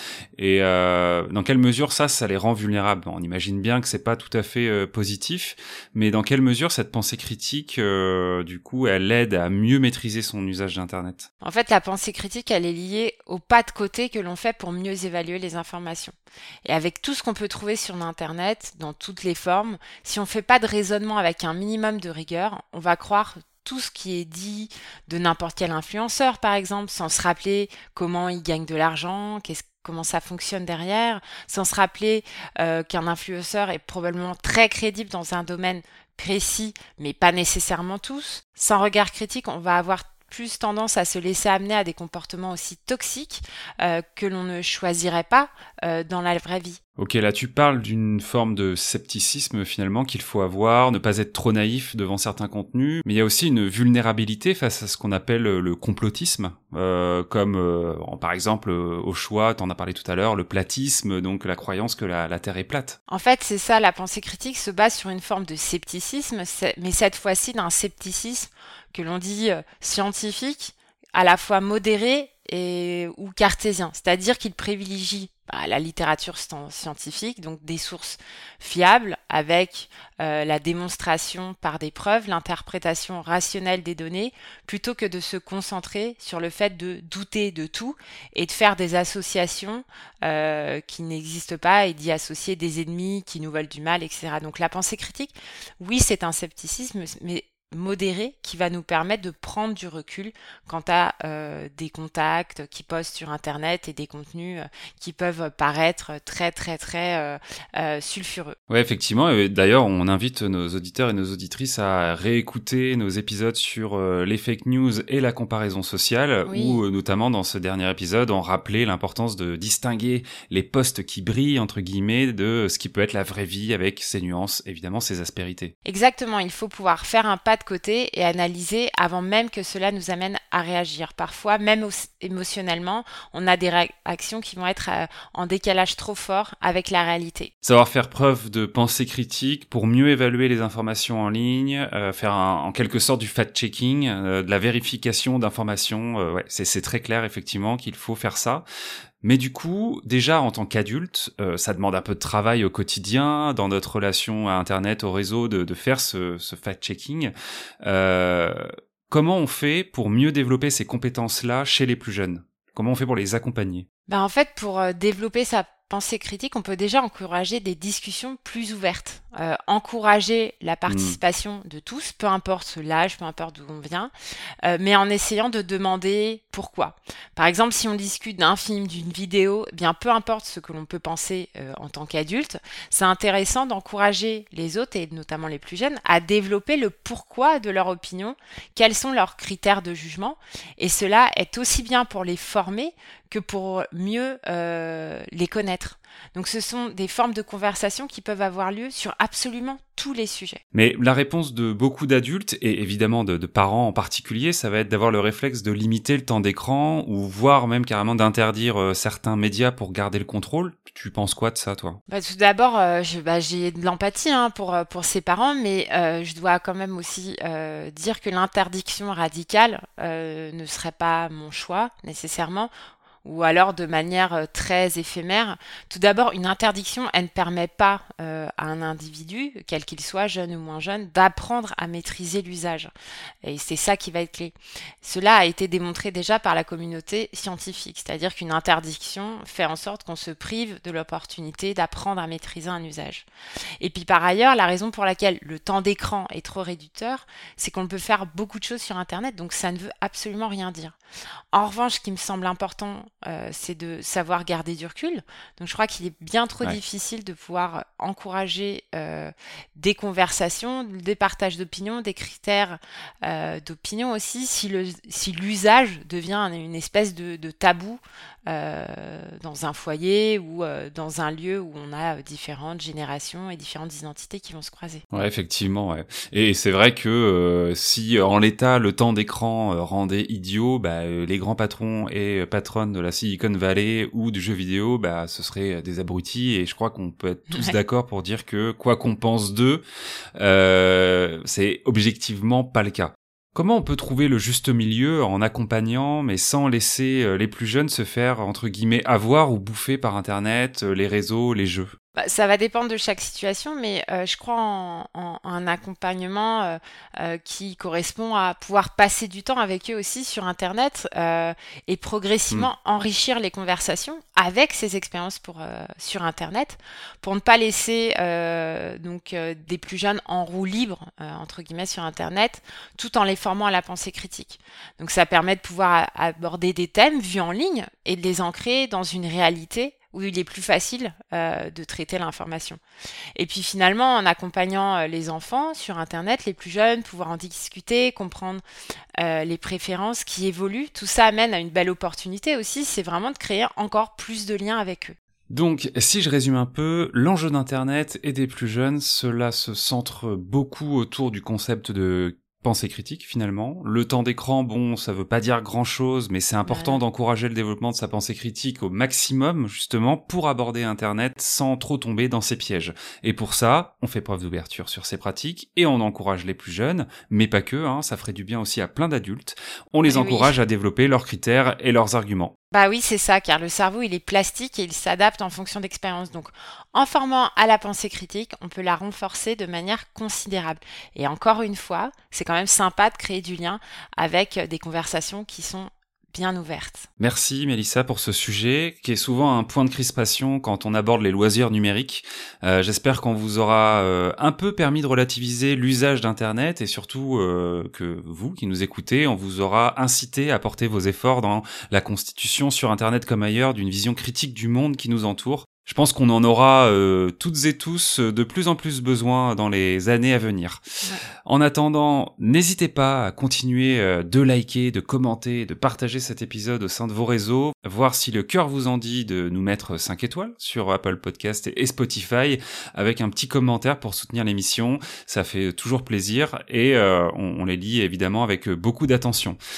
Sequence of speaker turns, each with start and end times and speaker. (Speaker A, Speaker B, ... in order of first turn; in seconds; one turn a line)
Speaker A: 0.4-11.3
Speaker B: 11.4-46.8
Speaker A: 47.0-63.0
Speaker B: 63.1-108.5
Speaker A: 108.7-125.7
Speaker B: 116.5-116.8
Speaker B: 125.8-137.5
Speaker A: 137.6-148.7
Speaker A: 149.2-163.8
Speaker B: 164.1-174.1
Speaker A: 170.9-171.2
Speaker B: 174.6-200.6
Speaker A: 200.7-212.0
Speaker B: 212.1-222.7
Speaker B: 223.2-232.9
Speaker B: 233.4-243.2
Speaker B: 243.8-250.9
Speaker B: 251.5-275.0
Speaker A: 275.1-289.8
Speaker B: 287.5-287.8
Speaker A: 290.4-301.9
Speaker B: 302.1-332.8
Speaker B: 333.4-338.6
Speaker B: 339.2-345.2
Speaker A: 345.5-372.5
Speaker B: 356.6-357.0
Speaker B: 370.0-370.6
Speaker B: 372.7-387.1
Speaker A: 387.2-410.8
Speaker A: 411.4-429.6